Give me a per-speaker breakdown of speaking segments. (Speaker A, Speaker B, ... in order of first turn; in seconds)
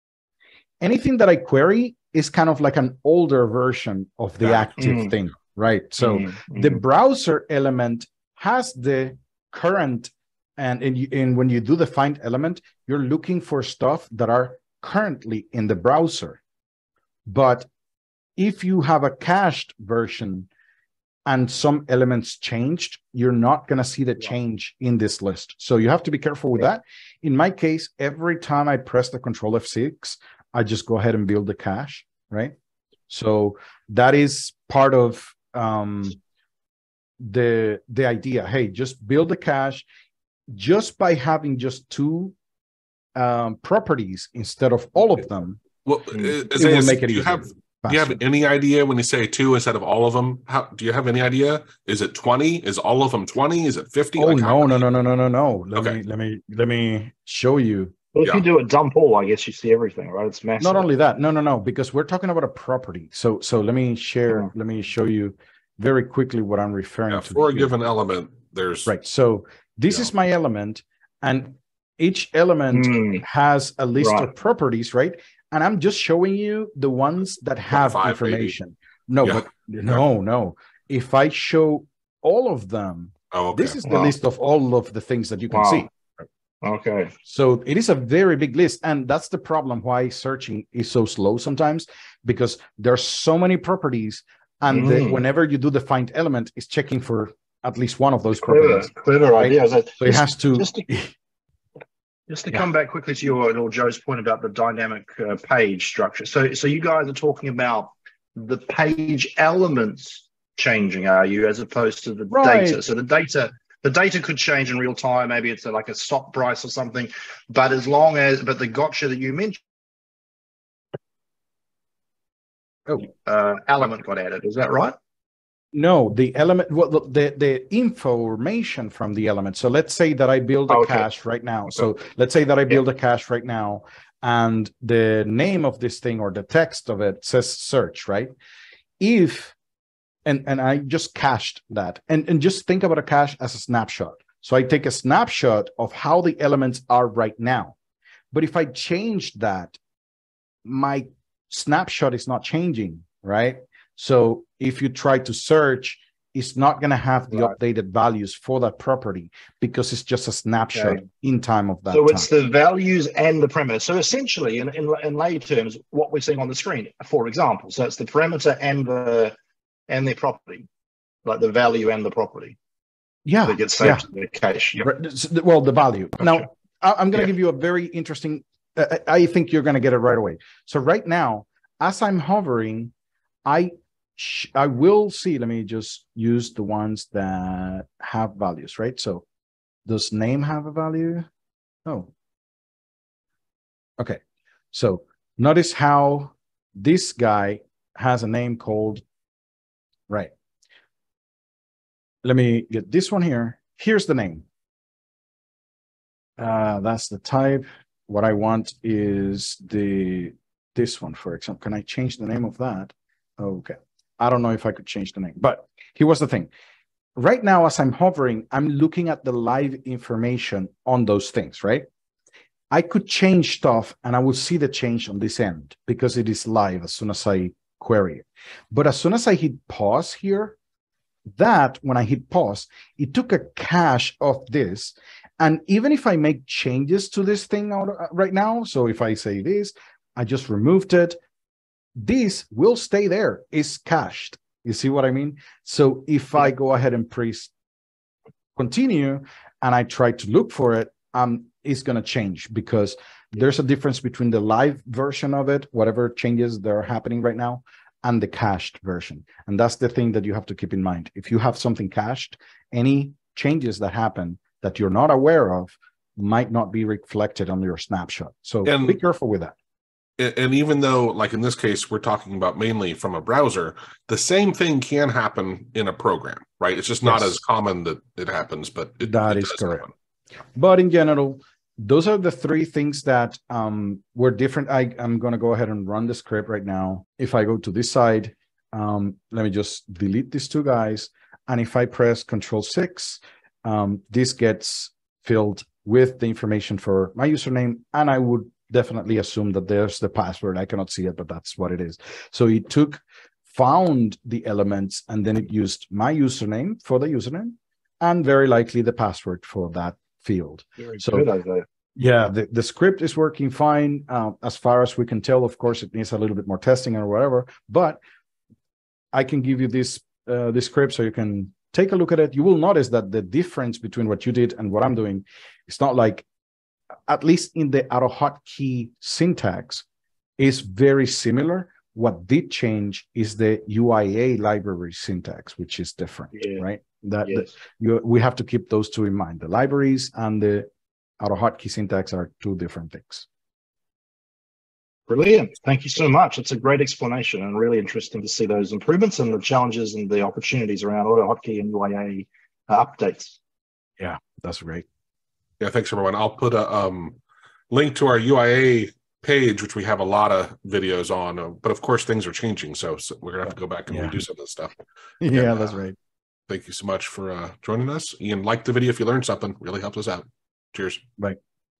Speaker A: 0.8-16.4, 17.3-17.7, 18.4-20.5, 21.3-32.5, 33.1-36.2, 37.2-39.9, 40.5-42.4, 43.2-45.6, 46.2-48.2, 54.2-58.0, 60.6-67.7, 68.9-85.9, 87.2-101.1, 112.3-112.8, 125.7-138.3, 139.0-139.6, 140.2-147.8, 148.3-149.8, 150.7-162.3, 173.3-174.1, 174.8-182.9, 183.5-189.2, 189.9-191.3, 191.8-192.1, 194.7-199.0, 202.2-204.4, 206.4-216.5, 217.2-221.9, 222.7-230.6, 231.3-241.2, 242.0-247.5, 248.6-269.6, 277.1-277.4, 279.0-279.9, 280.6-311.3, 312.0-318.0, 319.1-326.3, 327.1-329.9, 330.4-340.7, 341.2-343.3, 354.0-354.9, 363.9-364.1, 365.2-366.0
Speaker B: 4.4-4.7, 45.9-54.8, 67.1-68.9, 77.7-78.5, 79.2-80.0, 83.3-83.8, 268.6-269.0, 270.2-279.9, 355.6-357.2, 357.7-364.7, 365.3-365.7, 366.5-371.1
Speaker C: 4.8-5.1, 6.0-6.8, 58.1-60.9, 72.7-73.2, 74.0-74.3, 85.5-85.9, 86.6-87.2, 94.7-95.2, 98.4-100.9, 102.3-119.6, 122.9-125.0, 130.7-131.1, 160.8-161.0, 161.9-169.3, 169.9-170.7, 171.2-172.6, 173.5-174.9, 176.2-176.5, 310.8-311.7, 336.4-336.6, 345.1-353.4